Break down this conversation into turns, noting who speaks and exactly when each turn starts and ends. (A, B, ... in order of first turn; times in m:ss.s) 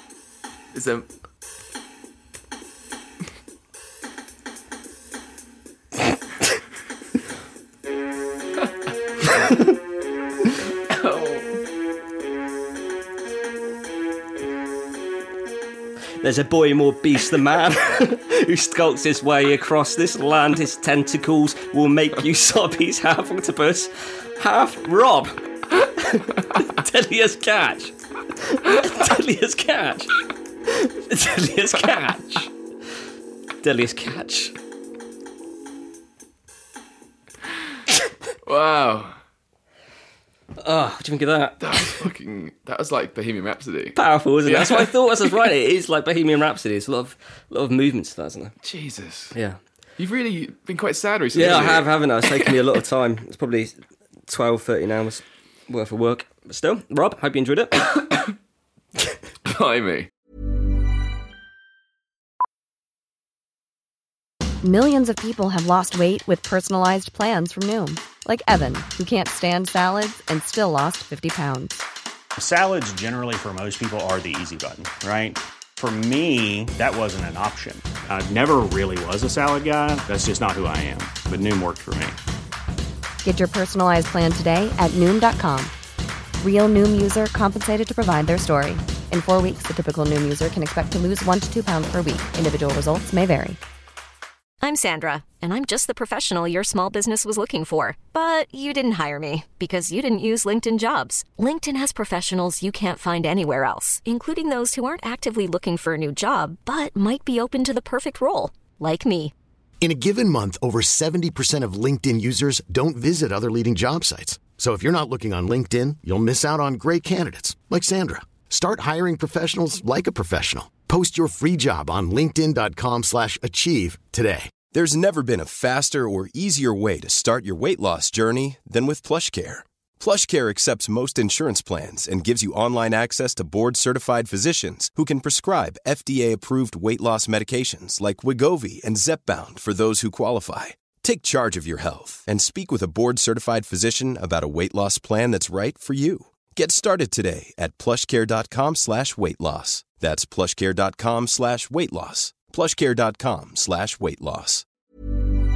0:00.7-0:01.1 A
0:10.9-0:11.6 A
0:16.2-0:30.1 B
0:30.7-0:32.5 B
0:33.6-0:34.5 B
0:38.4-0:39.2 A
0:40.6-0:42.0 B
0:41.6-0:45.3 A
0:44.0-0:48.6 B
0:48.6-0:49.4 A
0:49.3-0:49.6 B
0:50.0-0:52.6 A
0:51.3-0:57.9 B
0:57.9-0:58.3 A
0:59.4-1:00.1 A
1:04.6-1:11.8 C
1:12.4-1:22.2 D
1:23.2-1:25.7 C
1:26.4-1:33.6 C
1:34.6-1:49.3 E
1:49.8-2:04.5 F
2:04.7-2:34.6 G